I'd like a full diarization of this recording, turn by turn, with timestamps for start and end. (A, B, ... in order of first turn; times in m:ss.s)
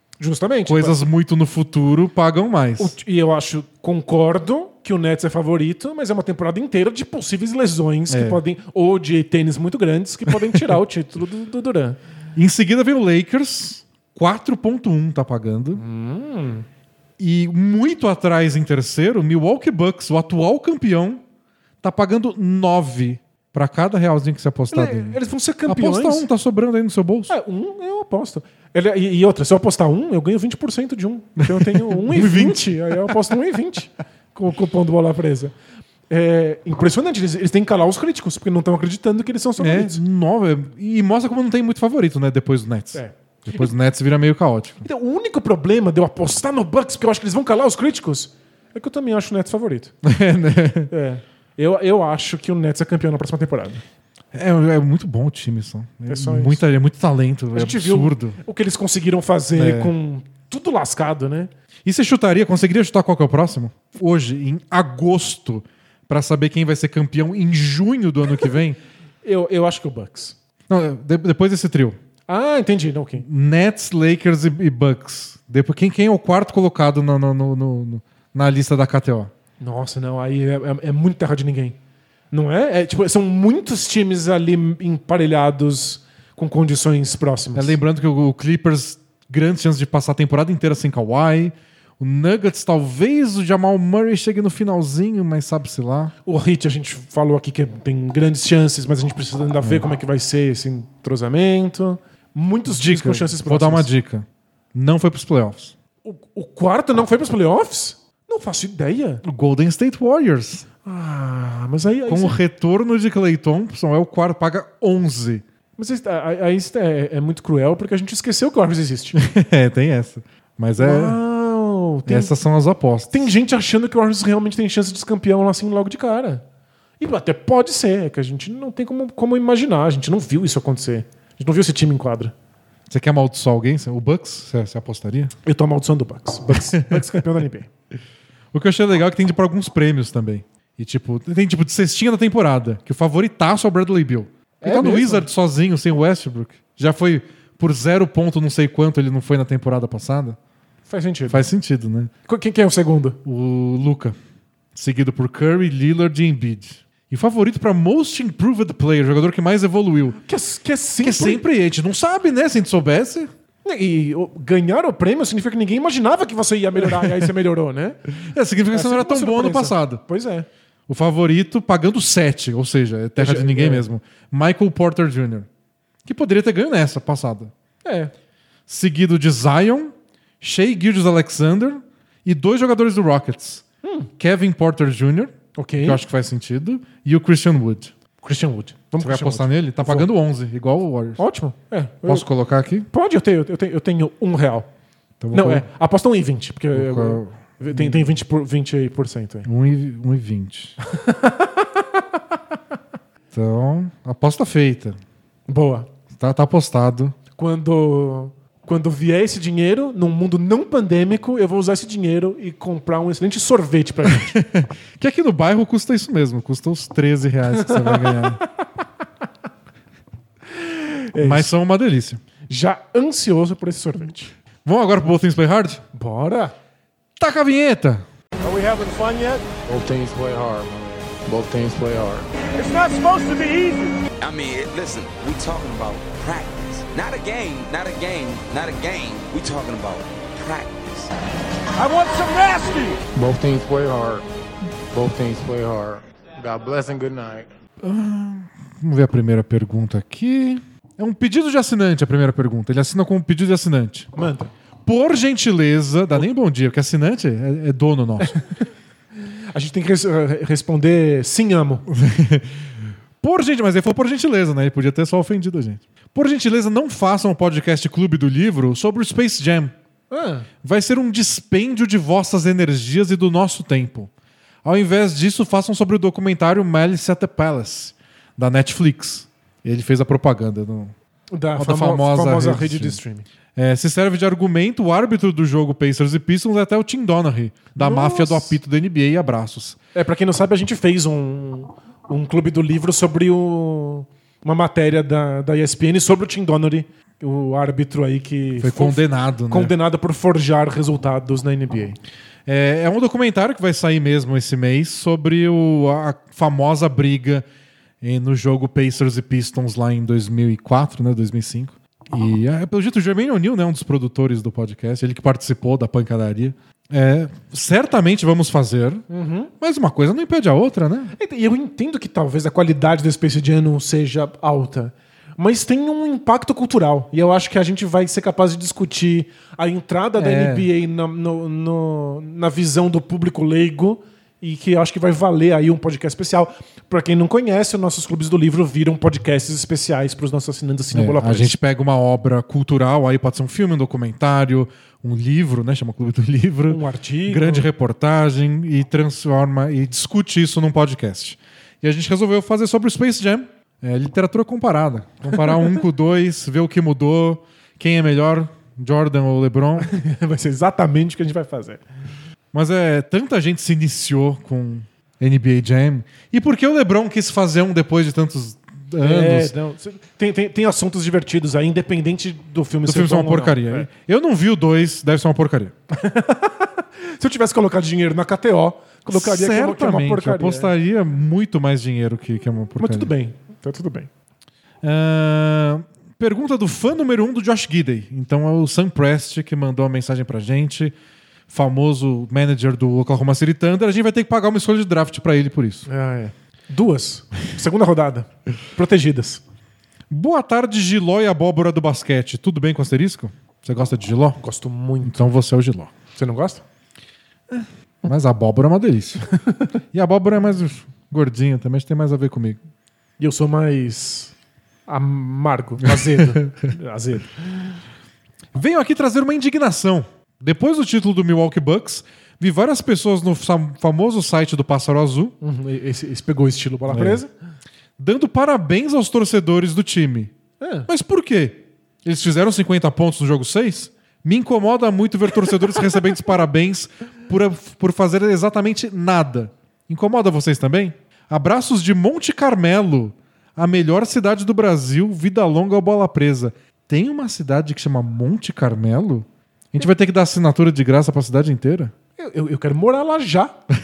0:00.2-0:01.1 A
0:00.7-0:02.9 B
0:02.8-0:12.0 A
0:08.1-0:08.4 B
0:12.3-0:15.8 B
0:15.8-0:16.6 A
0:17.2-0:21.2 B
0:21.8-0:27.3 B
0:24.7-0:26.3 A
0:27.3-0:35.5 A
0:31.6-0:33.1 B
0:36.1-0:40.0 A
0:39.6-0:44.8 B
0:42.9-0:43.7 A
0:44.8-0:49.9 A
0:50.0-0:50.9 B
0:50.9-0:53.8 A
0:54.3-0:58.4 B
0:56.1-0:56.6 A
0:57.5-1:01.5 A
0:59.5-0:59.9 B
1:01.8-1:08.8 B
1:09.2-1:10.4 A
1:10.7-1:12.0 B
1:12.3-1:13.2 A
1:13.2-1:19.3 B
1:19.6-1:21.8 A
1:22.3-1:27.8 A
1:27.5-1:36.1 B
1:36.2-1:43.9 A
1:42.6-1:45.7 B
1:46.0-1:49.2 A
1:49.2-1:50.7 B
1:50.8-1:52.4 A
1:52.1-1:55.4 B
1:55.8-1:59.2 A
1:59.1-2:01.2 B
2:00.8-2:02.3 A
2:02.1-2:03.3 B
2:03.1-2:06.4 A
2:07.0-2:12.3 A
2:12.9-2:15.3 B
2:15.4-2:17.7 A
2:16.5-2:17.0 B
2:18.5-2:30.4 B
2:24.6-2:25.3 A
2:30.9-2:31.5 A
2:31.3-2:32.1 B
2:32.3-2:33.2 A
2:33.2-2:34.2 B
2:34.7-2:40.2 B
2:40.2-2:41.4 A
2:41.0-2:43.3 B
2:43.6-2:48.0 A
2:46.8-2:47.2 B
2:48.2-2:50.0 B
2:48.7-2:50.5 A
2:50.9-2:55.5 B
2:53.2-2:53.9 A
2:56.0-2:57.5 B
2:57.8-2:58.1 A
2:58.7-3:03.6 B
3:03.8-3:04.1 A
3:04.2-3:07.9 B
3:05.6-3:06.0 A
3:08.2-3:10.1 A
3:09.0-3:11.2 B
3:11.2-3:12.2 A
3:12.0-3:12.9 B
3:12.9-3:14.7 A
3:15.2-3:15.6 B
3:15.3-3:19.5 A
3:16.7-3:18.1 B
3:19.4-3:20.8 B
3:20.8-3:22.0 A
3:23.3-3:25.0 B
3:25.5-3:25.9 A
3:26.1-3:27.2 B
3:27.4-3:34.4 A
3:34.2-3:38.4 B
3:37.5-3:38.5 A
3:40.5-3:41.5 A
3:41.2-3:42.2 B
3:42.5-3:44.3 A
3:44.6-3:45.8 B
3:45.9-3:46.5 A
3:47.2-3:48.0 B
3:48.5-3:49.4 C
3:49.6-3:52.3 D
3:52.6-3:53.9 C
3:54.2-4:01.2 E
4:01.8-4:03.0 C
4:03.1-4:04.2 D
4:04.9-4:07.5 D
4:07.8-4:14.1 B
4:14.1-4:14.5 A
4:14.8-4:18.4 B
4:18.2-4:18.7 A
4:19.5-4:21.8 A
4:21.9-4:29.7 B
4:30.1-4:30.5 A
4:30.6-4:34.1 B
4:34.6-4:40.9 B
4:41.3-4:43.2 A
4:41.6-4:43.0 B
4:43.6-4:49.8 B
4:47.7-4:48.6 A
4:49.9-5:02.0 A
4:58.6-4:59.7 B
5:02.4-5:07.4 B
5:08.0-5:19.0 B
5:19.1-5:19.5 A
5:19.6-5:21.1 B
5:21.1-5:41.5 A
5:30.2-5:30.7 B
5:40.9-5:59.9 B
5:46.7-5:47.7 A
5:59.8-6:01.8 A
6:02.5-6:09.5 B
6:09.0-6:13.9 A
6:12.8-6:15.7 B
6:15.9-6:20.7 A
6:19.1-6:23.1 B
6:22.8-6:24.1 A
6:24.8-6:30.9 B
6:31.5-6:35.9 B
6:35.9-6:39.4 A
6:40.1-6:44.4 B
6:44.4-6:45.2 A
6:45.0-6:45.9 B
6:46.1-6:46.6 A
6:47.5-6:49.2 B
6:49.9-6:52.6 B
6:53.2-6:54.3 A
6:54.9-6:57.8 A
6:55.8-6:56.5 B
6:58.5-7:05.3 B
7:05.4-7:07.3 A
7:06.9-7:07.2 B
7:08.0-7:10.3 B
7:10.6-7:10.9 A
7:10.9-7:31.9 B
7:32.2-7:33.6 A